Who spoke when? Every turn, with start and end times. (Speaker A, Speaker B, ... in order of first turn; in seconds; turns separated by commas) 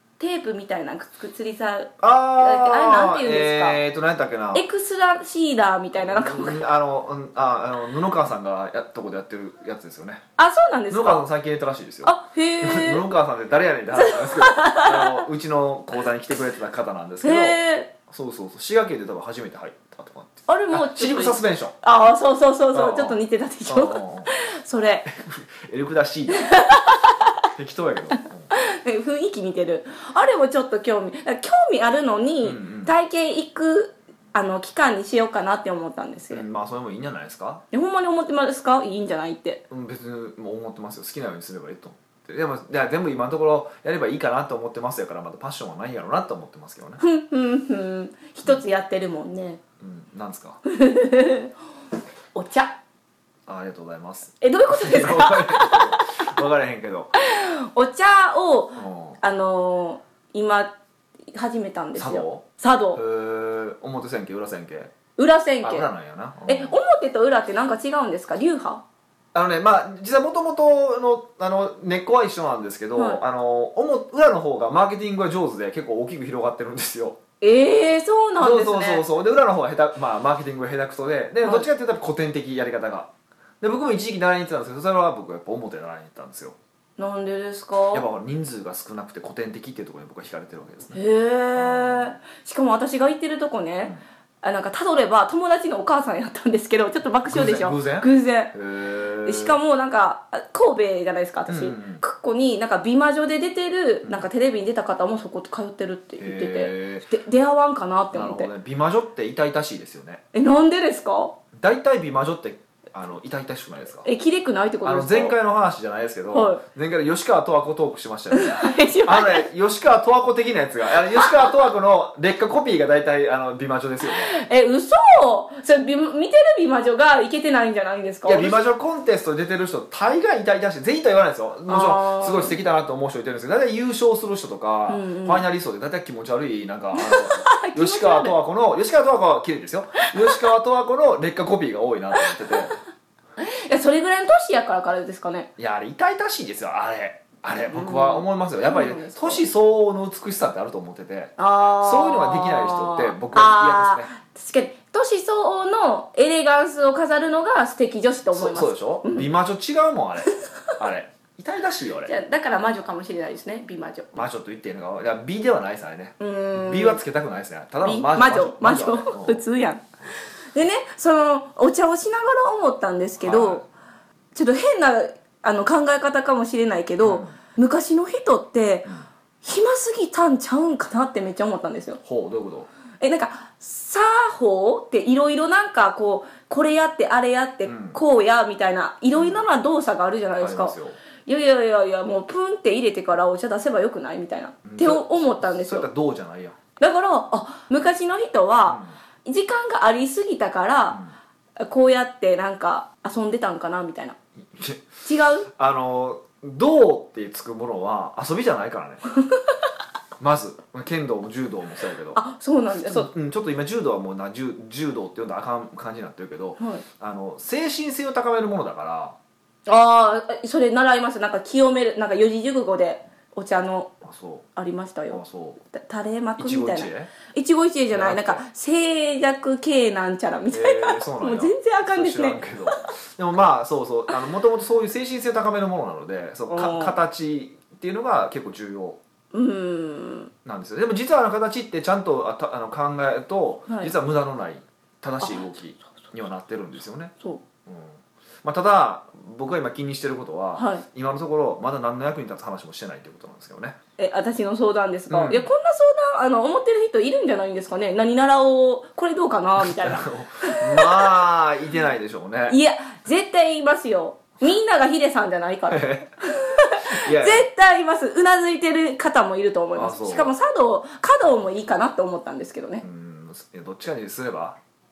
Speaker A: 0.2-3.8, Speaker B: 2.0-4.7, Speaker A: 4.5-6.6, Speaker B: 6.0-10.2, Speaker A: 10.4-11.3, Speaker B: 10.9-21.8, Speaker A: 12.0-13.0, Speaker A: 13.9-15.3, Speaker A: 17.2-17.9, Speaker A: 20.5-25.1, Speaker B: 22.7-24.4, Speaker B: 25.1-26.7, Speaker A: 26.3-27.4, Speaker B: 27.6-28.5, Speaker A: 28.5-36.4, Speaker B: 32.4-32.9, Speaker B: 36.3-37.6, Speaker A: 37.7-39.6, Speaker B: 39.7-47.0, Speaker A: 47.0-49.6, Speaker B: 49.8-50.6, Speaker A: 50.6-51.5, Speaker A: 52.3-52.8, Speaker B: 53.5-57.1, Speaker A: 54.4-56.1, Speaker A: 57.2-60.8, Speaker B: 58.8-59.2, Speaker A: 61.3-63.0, Speaker B: 62.0-64.9, Speaker A: 65.2-65.9, Speaker B: 65.6-66.8, Speaker A: 66.5-68.8, Speaker B: 69.3-77.2, Speaker A: 73.0-73.2, Speaker A: 77.4-79.0, Speaker B: 78.4-83.1, Speaker A: 81.4-81.7, Speaker B: 83.6-86.6, Speaker A: 87.0-88.1, Speaker B: 87.9-91.0, Speaker A: 90.9-98.5, Speaker B: 91.6-92.2, Speaker B: 97.3-99.6, Speaker A: 99.2-108.5, Speaker B: 101.5-102.0, Speaker B: 106.2-107.1, Speaker B: 108.1-110.2, Speaker A: 110.3-111.4, Speaker B: 111.5-114.1, Speaker A: 114.0-115.4, Speaker B: 114.8-124.3, Speaker A: 116.3-116.6, Speaker A: 118.3-119.5, Speaker A: 121.2-121.5, Speaker A: 124.1-128.6, Speaker B: 128.2-142.8, Speaker A: 131.7-132.6, Speaker A: 134.9-135.4, Speaker A: 136.9-138.4, Speaker A: 140.1-140.4, Speaker A: 142.3-142.6, Speaker A: 143.4-145.5, Speaker B: 145.6-154.1, Speaker A: 147.6-149.5, Speaker A: 151.4-159.3, Speaker B: 158.3-162.2, Speaker A: 162.1-164.3, Speaker B: 164.2-169.4, Speaker A: 166.2-167.0, Speaker A: 167.8-169.9, Speaker A: 170.5-173.6, Speaker B: 173.2-173.7, Speaker A: 174.3-178.9, Speaker B: 177.0-177.4, Speaker A: 179.4-182.0, Speaker B: 182.1-182.7, Speaker A: 183.0-190.8, Speaker B: 187.7-188.0, Speaker B: 189.2-189.4, Speaker B: 190.4-191.0, Speaker A: 191.3-195.9, Speaker B: 194.7-196.6, Speaker A: 196.8-201.0, Speaker B: 198.7-198.9, Speaker A: 201.6-204.2, Speaker B: 204.5-209.1, Speaker A: 205.1-205.5, Speaker B: 210.2-212.2, Speaker A: 212.1-213.1, Speaker B: 212.8-219.2, Speaker A: 216.6-216.8, Speaker A: 219.7-223.9, Speaker B: 224.0-224.5, Speaker A: 224.6-232.8, Speaker B: 225.1-225.6, Speaker B: 226.4-227.1, Speaker B: 227.9-228.4, Speaker B: 230.5-239.0, Speaker A: 236.5-237.0, Speaker A: 239.3-240.3, Speaker B: 240.4-247.1, Speaker A: 243.7-243.9, Speaker A: 245.2-245.5, Speaker B: 247.7-253.8, Speaker A: 250.6-250.8, Speaker A: 254.0-261.1, Speaker B: 255.1-255.5, Speaker B: 259.6-262.6, Speaker A: 262.5-272.9, Speaker B: 265.7-266.1, Speaker B: 266.8-267.5, Speaker B: 269.8-270.3, Speaker B: 272.8-274.6